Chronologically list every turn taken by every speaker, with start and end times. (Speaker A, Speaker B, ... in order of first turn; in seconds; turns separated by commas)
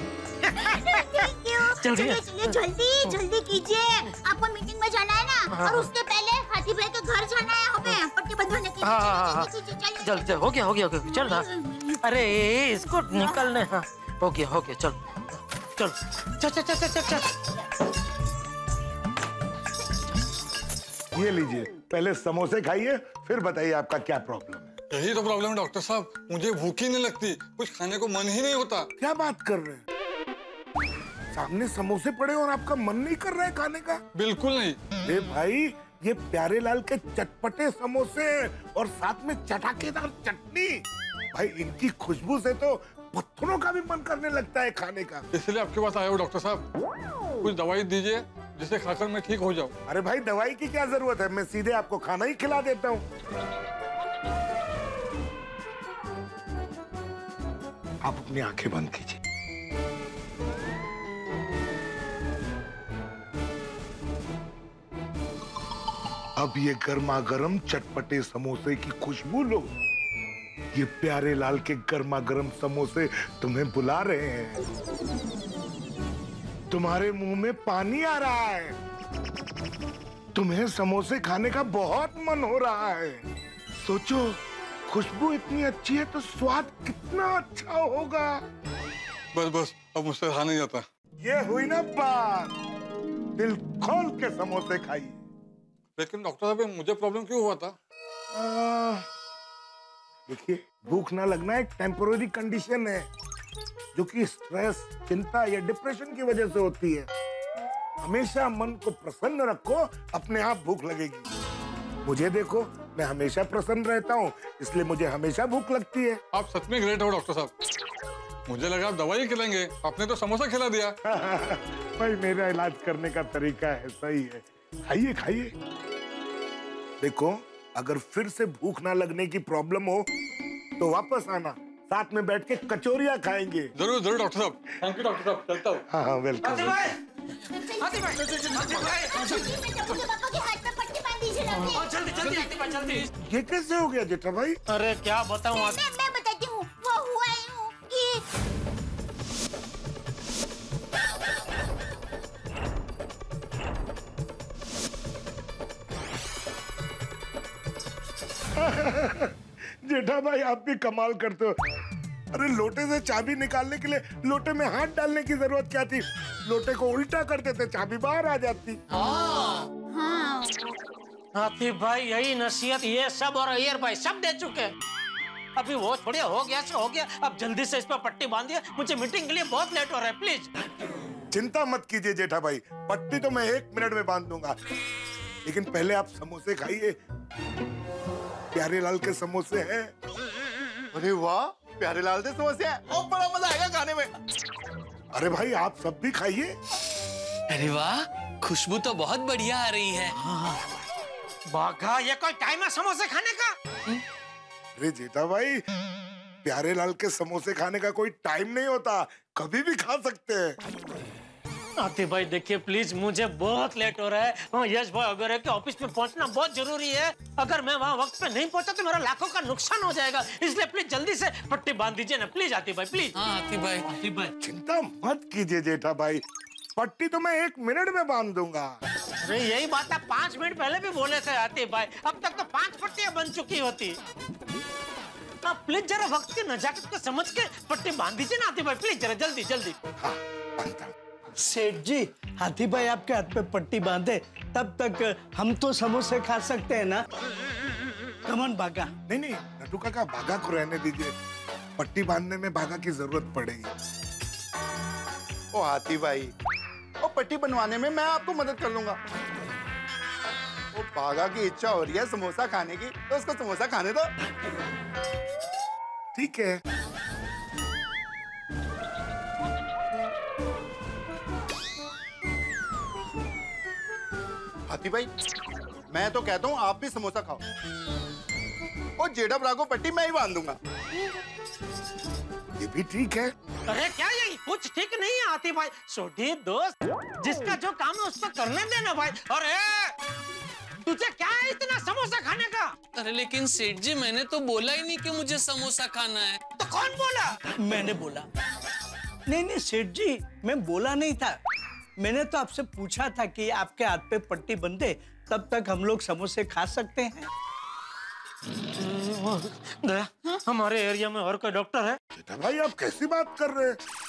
Speaker A: 0.4-1.3, Speaker B: 0.5-10.4, Speaker A: 1.8-2.5, Speaker A: 5.5-5.9, Speaker A: 8.8-9.5, Speaker A: 10.0-11.4, Speaker B: 11.0-12.0, Speaker A: 12.0-15.0, Speaker B: 13.1-13.5, Speaker A: 15.8-17.3, Speaker C: 21.1-24.7, Speaker D: 24.9-28.9, Speaker C: 29.0-29.8, Speaker C: 31.3-34.0, Speaker D: 34.1-34.8, Speaker C: 35.0-40.8, Speaker C: 41.3-45.3, Speaker D: 45.3-46.6, Speaker D: 47.4-49.7, Speaker C: 49.9-53.0, Speaker C: 58.0-59.2, Speaker C: 66.4-69.7, Speaker C: 70.7-74.6, Speaker C: 76.7-78.7, Speaker C: 80.3-83.3, Speaker C: 83.8-88.4, Speaker D: 89.3-90.8, Speaker C: 91.2-92.5, Speaker C: 93.4-95.2, Speaker D: 96.0-97.8, Speaker C: 98.3-99.0, Speaker C: 100.3-103.0, Speaker C: 103.9-107.1, Speaker C: 108.0-111.2, Speaker C: 112.0-116.2, Speaker D: 116.3-117.5, Speaker D: 118.5-121.0, Speaker C: 121.0-125.5, Speaker C: 127.0-130.1, Speaker C: 130.8-133.7, Speaker D: 133.8-135.8, Speaker C: 135.9-136.9, Speaker D: 136.4-136.8, Speaker A: 136.5-137.0, Speaker B: 137.5-142.3, Speaker A: 137.8-139.5, Speaker A: 141.5-143.1, Speaker C: 143.2-144.6, Speaker A: 144.7-145.8, Speaker B: 145.5-148.2, Speaker C: 158.6-159.3, Speaker C: 159.8-161.5, Speaker C: 162.3-168.8, Speaker E: 168.9-169.6, Speaker B: 169.9-170.7, Speaker A: 171.3-174.7, Speaker A: 175.6-180.5, Speaker C: 181.3-184.5, Speaker C: 185.4-186.9, Speaker C: 188.5-189.9, Speaker F: 190.9-194.1, Speaker C: 195.1-196.5, Speaker E: 197.5-200.1, Speaker A: 201.5-203.5, Speaker C: 204.8-205.6, Speaker C: 206.4-210.6, Speaker A: 211.8-223.1, Speaker E: 223.2-223.9, Speaker C: 224.4-226.2, Speaker C: 226.8-228.7, Speaker A: 229.2-233.9, Speaker A: 235.4-239.8, Speaker C: 240.0-240.9, Speaker G: 241.4-247.0, Speaker G: 248.2-248.9, Speaker C: 249.1-251.1, Speaker C: 251.8-253.7, Speaker F: 255.5-256.3, Speaker F: 257.0-259.0, Speaker F: 260.7-264.1, Speaker C: 266.1-266.6, Speaker F: 274.7-275.1, Speaker F: 275.9-277.4, Speaker F: 279.0-280.6, Speaker C: 282.6-283.3, Speaker A: 283.7-289.9, Speaker A: 290.8-292.7, Speaker E: 292.9-296.4, Speaker A: 296.6-297.4, Speaker G: 297.6-298.3, Speaker G: 299.3-301.4, Speaker G: 302.0-307.3, Speaker A: 308.8-312.0, Speaker C: 312.2-313.8